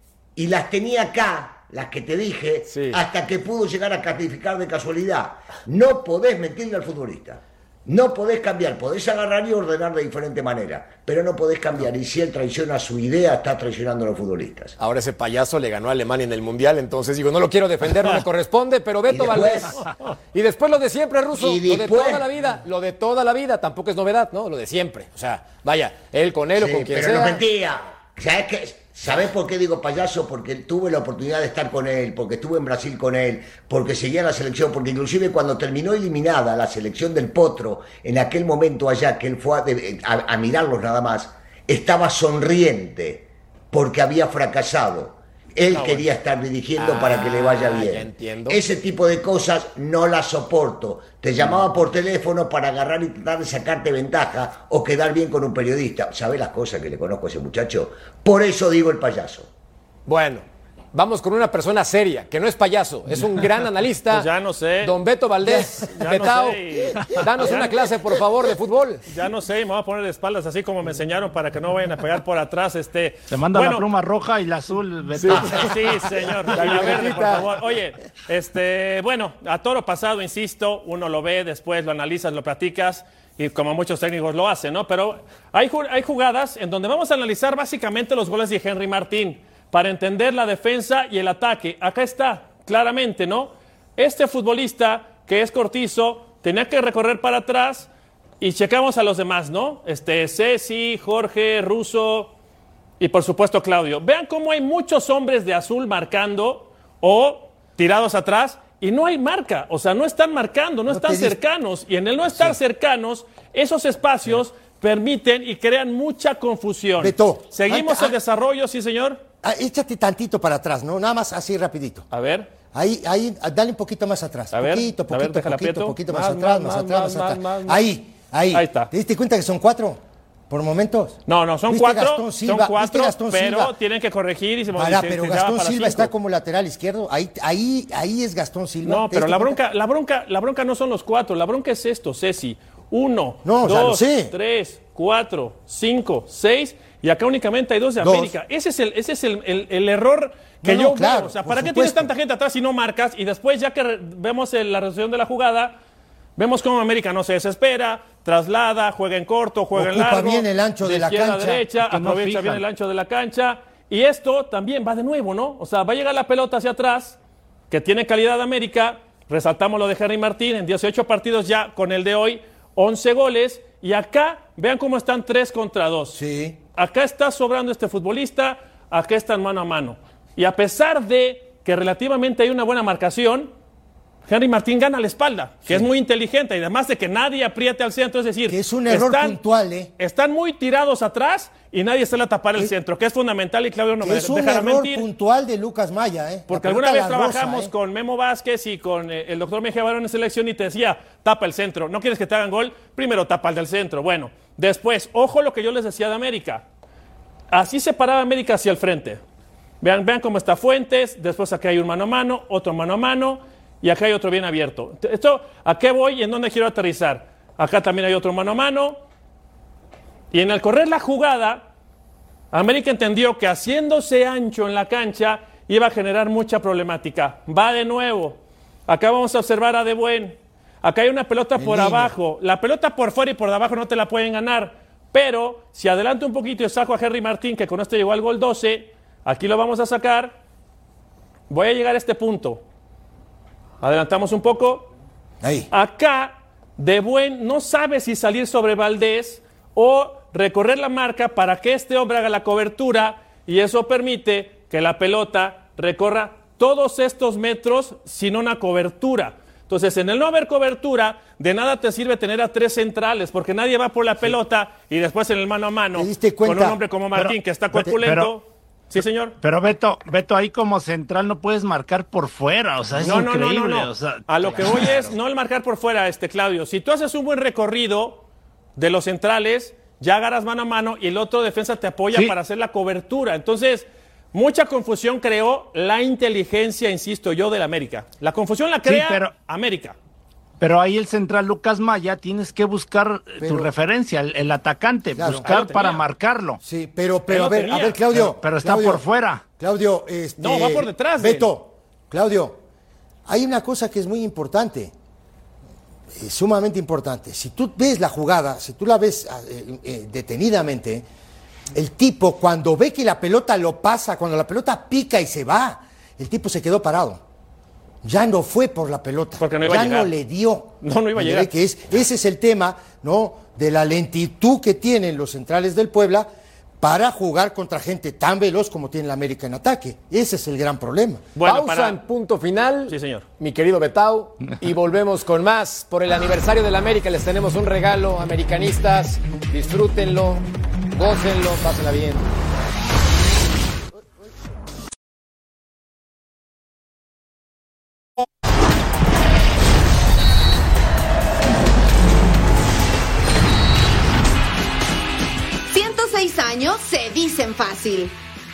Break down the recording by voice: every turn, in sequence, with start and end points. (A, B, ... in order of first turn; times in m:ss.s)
0:00.4-0:14.7 A
0:02.7-0:03.0 B
0:14.8-0:19.8 B
0:19.1-0:19.8 A
0:19.8-0:20.1 C
0:20.3-0:27.4 B
0:21.3-0:22.3 A
0:26.6-0:59.5 A
0:45.7-0:46.1 C
0:46.8-0:48.6 B
1:00.0-1:04.3 B
1:04.1-1:05.0 C
1:04.8-1:09.0 B
1:06.0-1:07.7 C
1:09.1-1:13.8 C
1:13.3-1:15.7 D
1:15.2-1:15.6 B
1:15.5-1:37.9 C
1:16.5-1:17.4 B
1:38.4-1:42.3 C
1:43.0-1:59.2 C
1:50.9-1:51.4 E
1:57.0-1:58.2 E
1:59.4-2:02.0 E
2:02.1-2:02.5 C
2:02.7-2:13.7 E
2:04.5-2:07.8 C
2:08.5-2:08.9 C
2:11.3-2:16.1 C
2:14.7-2:19.6 E
2:18.8-2:35.8 C
2:23.4-2:24.3 E
2:28.0-2:28.3 E
2:30.6-2:32.1 E
2:36.4-2:47.2 C
2:39.7-2:41.6 E
2:41.8-2:42.6 D
2:47.7-2:56.2 C
2:56.1-2:56.6 E
2:56.8-3:03.5 C
3:04.3-3:09.4 C
3:08.5-3:09.9 E
3:10.0-3:15.0 C
3:14.0-3:17.7 E
3:16.5-3:26.6 C
3:27.5-3:29.2 C
3:29.8-3:39.0 C
3:40.3-3:41.7 C
3:42.5-4:00.4 C
3:51.6-3:52.1 E
4:01.5-4:02.6 C
4:03.8-4:04.9 C
4:05.4-4:05.7 E
4:05.7-4:29.3 C
4:25.9-4:26.8 E
4:27.1-4:28.3 D
4:29.0-4:35.1 D
4:33.0-4:38.2 C
4:38.8-4:50.0 C
4:48.8-4:49.3 D
4:50.6-4:56.6 D
4:53.4-4:53.7 E
4:55.2-4:55.4 E
4:55.3-4:56.0 C
4:56.6-4:59.0 E
4:57.3-4:58.0 C
4:58.2-4:59.4 D
4:59.6-5:02.6 E
5:00.4-5:01.5 C
5:03.2-5:04.9 E
5:06.1-5:11.0 E
5:11.7-5:17.2 E
5:18.0-5:26.3 E
5:19.4-5:20.1 C
5:20.8-5:21.5 C
5:26.8-5:31.2 E
5:31.4-5:32.0 C
5:31.4-5:42.3 B
5:32.9-5:33.2 C
5:55.7-5:58.2 F